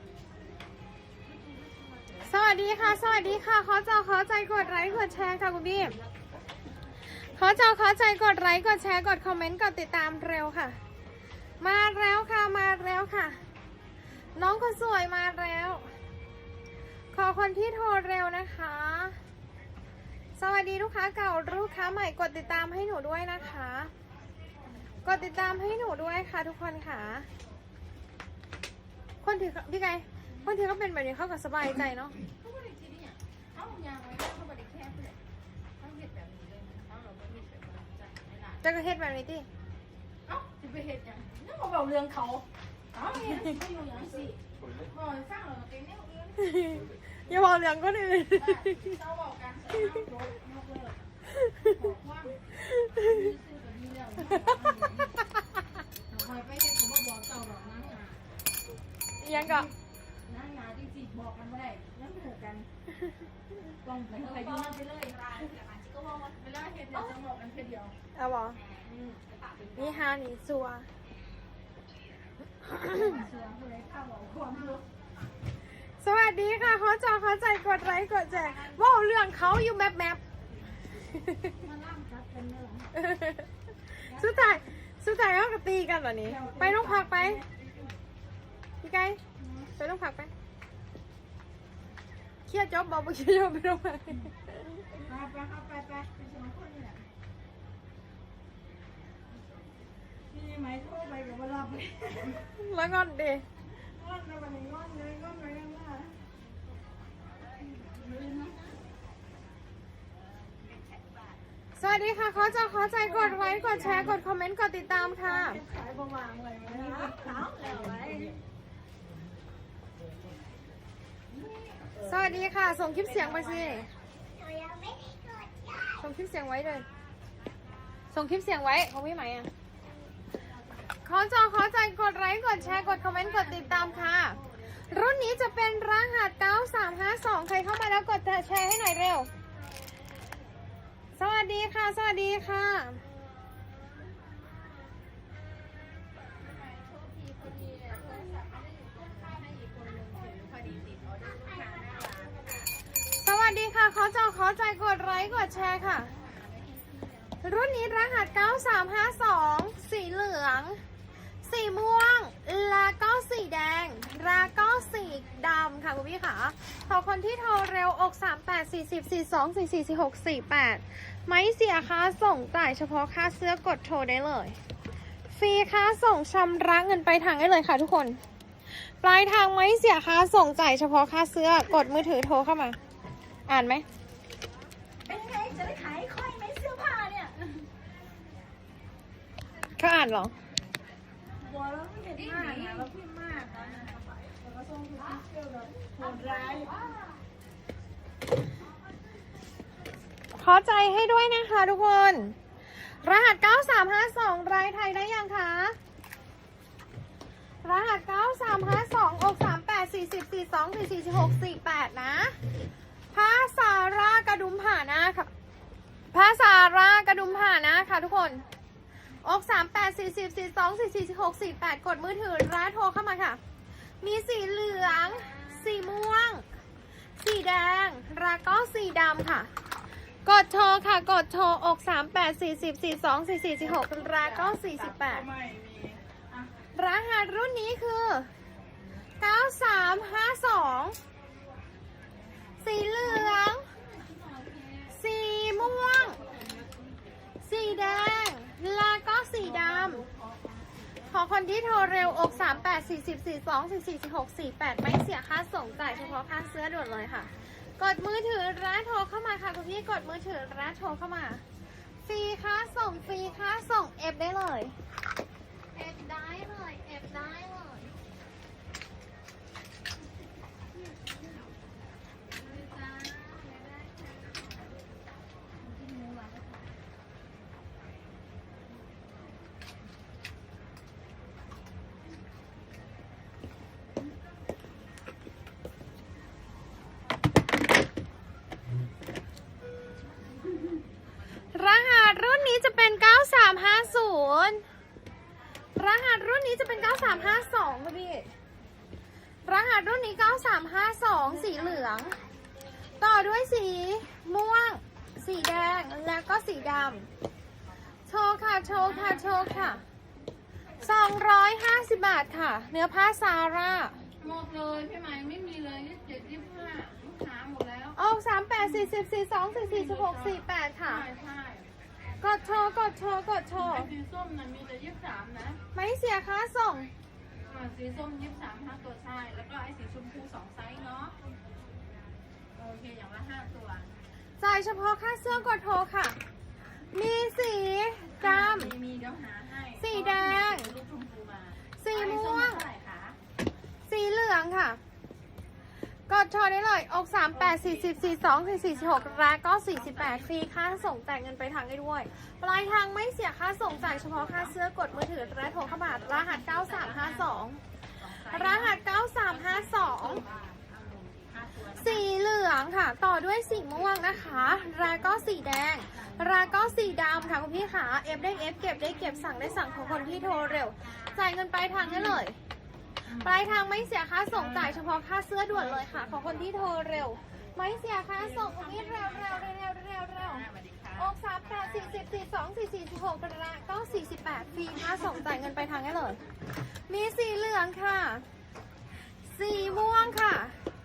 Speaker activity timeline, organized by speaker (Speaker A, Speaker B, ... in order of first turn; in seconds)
Speaker A: 1.4-2.3, 32.4-35.2, 35.8-38.7, 40.2-46.4, 48.3-51.0, 51.6-52.4, 52.9-55.2, 56.0-58.2, 59.3-59.7, 60.2-62.7, 63.8-67.9, 68.7-70.0, 72.8-74.8, 78.3-78.8, 81.4-82.9, 84.1-84.6, 86.3-87.9, 89.4-89.7, 95.0-97.0, 100.3-102.4, 103.7-106.1, 107.8-108.7, 113.0-114.2, 115.2-118.4, 121.3-122.3, 123.0-125.9, 130.4-130.9, 132.6-134.9, 146.3-152.7, 155.1-158.8, 164.1-165.3, 185.1-187.4, 191.4-197.0, 224.7-226.0, 233.6-236.5, 243.0-244.9, 245.6-247.1, 249.4-251.2, 251.7-252.8, 255.7-256.4, 265.7-267.8, 272.4-273.8, 275.7-276.4, 308.8-309.8, 314.2-317.9, 319.5-321.7, 323.5-325.6, 327.4-331.1, 332.5-333.9, 338.2-343.2, 347.3-350.7, 353.6-362.1, 365.9-367.4, 368.3-371.2, 371.8-372.2, 373.0-373.6, 374.3-374.9, 375.5-376.6, 378.1-379.5, 380.1-382.1
Speaker B: 2.2-6.0, 7.0-10.8, 11.6-13.4, 14.3-15.9, 17.1-19.2, 20.4-23.9, 25.0-27.3, 29.2-32.2, 38.6-39.5, 43.1-43.5, 46.4-49.0, 51.3-51.7, 52.6-53.3, 59.2-59.7, 68.1-68.6, 69.7-70.9, 72.6-73.2, 76.0-80.2, 81.0-81.6, 82.9-87.4, 88.8-89.2, 89.8-90.3, 92.5-95.0, 102.4-103.4, 111.8-115.6, 122.0-123.9, 126.0-126.8, 128.1-129.5, 131.0-139.3, 141.2-143.0, 153.0-156.1, 157.4-160.8, 161.4-174.6, 175.3-182.8, 183.5-183.8, 189.8-190.3, 192.2-192.8, 196.0-196.8, 200.3-205.8, 207.6-212.4, 213.1-215.3, 216.1-218.4, 219.2-223.4, 224.0-226.4, 227.2-229.5, 230.2-235.2, 236.7-238.3, 239.2-241.0, 242.6-243.6, 244.9-246.2, 247.4-250.0, 251.1-261.4, 262.0-264.8, 266.8-267.8, 273.1-273.7, 291.5-294.6, 295.8-298.3, 299.4-302.2, 303.0-307.1, 308.1-309.8, 310.8-314.0, 317.9-321.1, 322.2-323.9, 325.7-326.9, 334.4-336.2, 336.9-338.7, 339.8-340.8, 341.8-342.6, 343.9-344.8, 346.1-357.6, 358.2-360.2, 361.8-372.4, 373.1-380.4, 381.0-388.2, 389.2-390.6